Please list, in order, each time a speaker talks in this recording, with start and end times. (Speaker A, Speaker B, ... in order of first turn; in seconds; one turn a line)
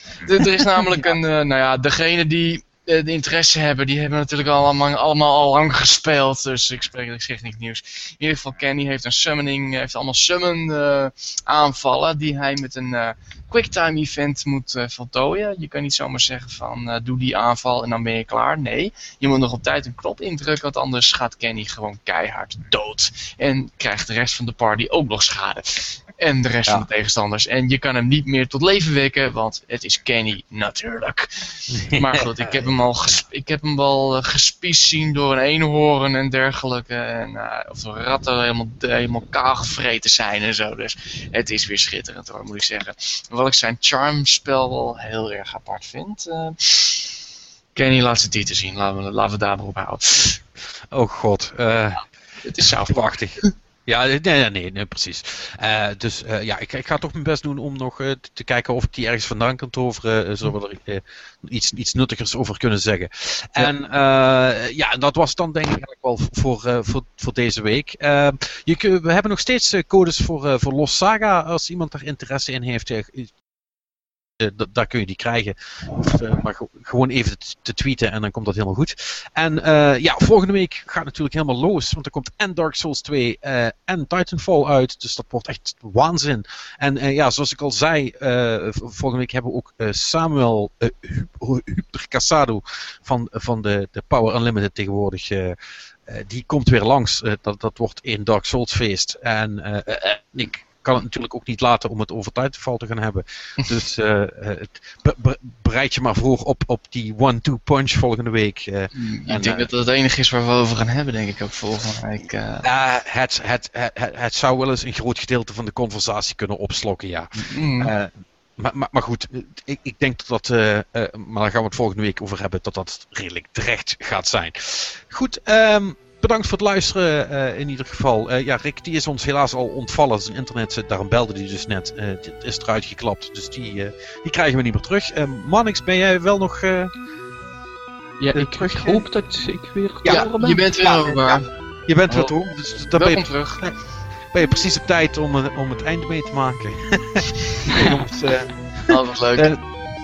Speaker A: 0.2-47.1
Speaker B: 31.7-33.2
Speaker A: 47.7-50.4
Speaker B: 50.9-52.0
Speaker A: 52.4-53.5
Speaker B: 52.7-73.3
Speaker B: 74.4-95.5
Speaker B: 96.1-109.7
Speaker A: 108.9-112.7
Speaker B: 112.6-136.9
Speaker A: 117.5-117.9
Speaker C: 138.2-140.7
Speaker B: 138.3-139.0
Speaker B: 140.0-143.8
Speaker A: 140.1-141.5
Speaker A: 142.1-142.3
Speaker A: 142.9-143.7
Speaker B: 144.3-149.6
Speaker A: 148.9-149.5